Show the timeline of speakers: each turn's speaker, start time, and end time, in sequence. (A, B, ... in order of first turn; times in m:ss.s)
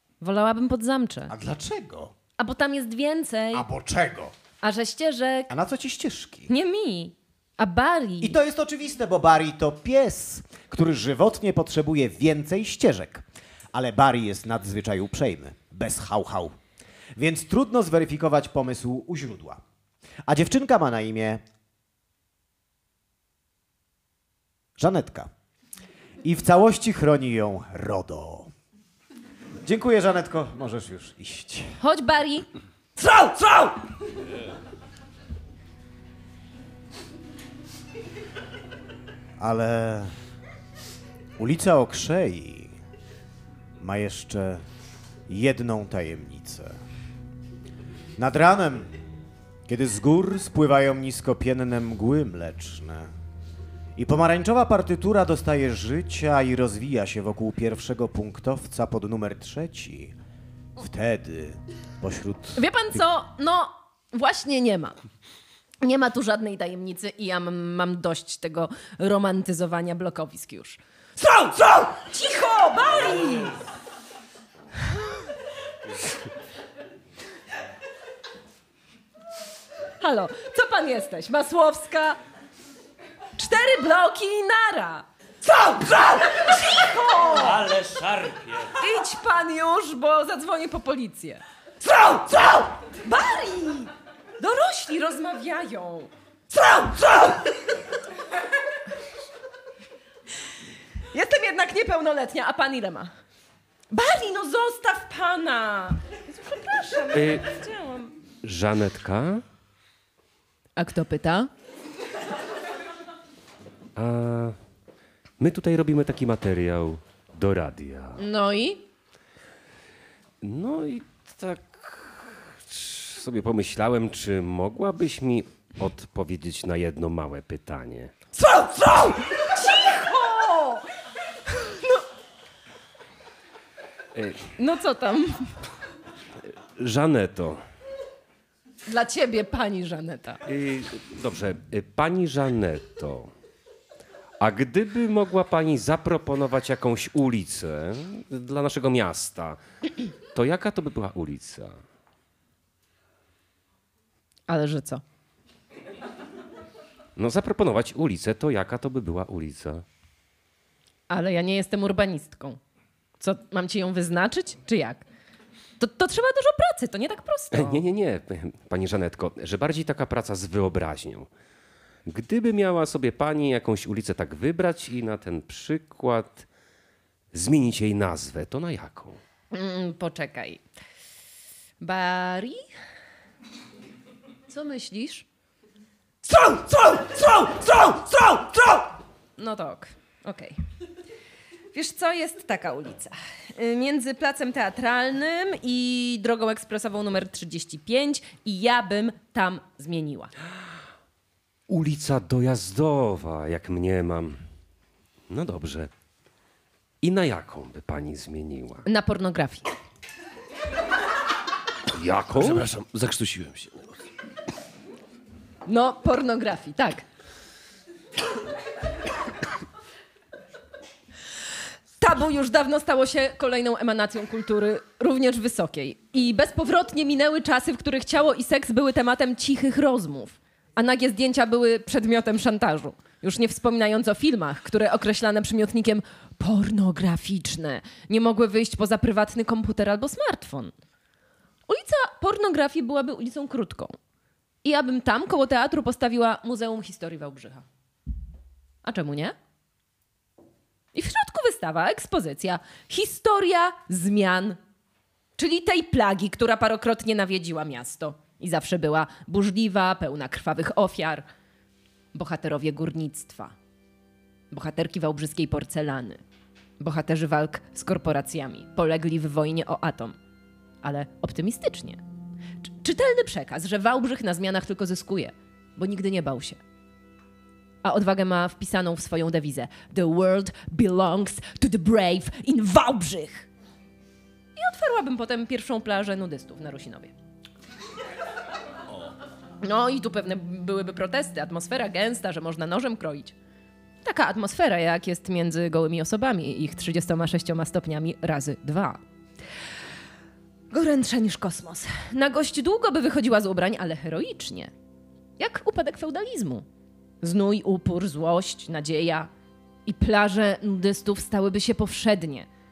0:00.2-0:01.3 A
0:01.3-0:02.1 B
0:02.4-0:03.7 A
0:03.5-0:04.3 B
0:04.6-0:05.5 A
0:05.5-0:06.5 B
0:06.5-0:08.4 A
0:08.2-0:16.6 B
0:17.2-0:19.6 B
0:20.3-0:21.4 B
0:24.8-0:25.3 B
0:26.2-0:28.5 B
0:29.6-0:31.8 B
0:31.8-0:32.5 A
0:33.0-0:33.7 A
0:39.4-0:40.2 B
0:41.4-0:42.8 B
0:43.8-0:44.6 B
0:45.3-0:46.8 B
0:48.2-0:48.9 B
0:49.7-0:53.2 B
0:54.0-1:00.2 B
1:00.8-1:02.6 B
1:02.6-1:05.0 A
1:05.8-1:13.6 A
1:20.0-1:22.2 A
1:23.4-1:27.6 A
1:27.3-1:28.8 C
1:28.8-1:37.5 A
1:41.1-1:43.1 A
1:43.9-1:48.1 A
1:47.1-1:47.4 D
1:48.4-1:49.4 D
1:50.8-1:51.5 A
1:54.0-1:54.6 D
1:55.4-1:58.2 D
1:58.2-1:58.8 A
2:00.4-2:08.1 D
2:08.4-2:10.9 A
2:11.4-2:12.0 A
2:14.6-2:15.5 A
2:16.5-2:17.6 D
2:18.9-2:20.4 A
2:20.5-2:23.3 D
2:24.4-2:29.6 D
2:30.3-2:31.8 D
2:34.5-2:35.0 A
2:37.2-2:39.8 D
2:41.1-2:42.6 A
2:43.2-2:45.0 A
2:45.8-2:47.8 A
2:47.5-2:51.3 D
2:52.1-2:56.5 D
2:57.3-2:59.2 D
2:59.5-3:00.6 A
3:01.8-3:02.6 A
3:04.5-3:05.3 A
3:06.2-3:10.6 A
3:11.7-3:20.3 A
3:21.7-3:24.4 D
3:25.3-3:25.9 D
3:27.0-3:28.9 D
3:28.9-3:29.7 A
3:31.9-3:32.7 D
3:32.3-3:34.0 C
3:35.7-3:37.0 A
3:42.0-4:00.7 A
4:01.7-4:04.0 A
4:04.6-4:07.6 A
4:08.8-4:09.4 A
4:10.9-4:14.6 A
4:15.4-4:21.3 A
4:22.1-4:23.6 A
4:24.5-4:26.2 A
4:26.8-4:30.2 A
4:30.8-4:32.0 A
4:32.8-4:36.6 A
4:37.8-4:43.5 A
4:44.6-4:47.1 A
4:49.6-4:53.4 A
4:54.0-4:59.0 A
5:00.7-5:04.7 A
5:05.4-5:06.7 A
5:07.2-5:09.3 A
5:09.9-5:12.5 A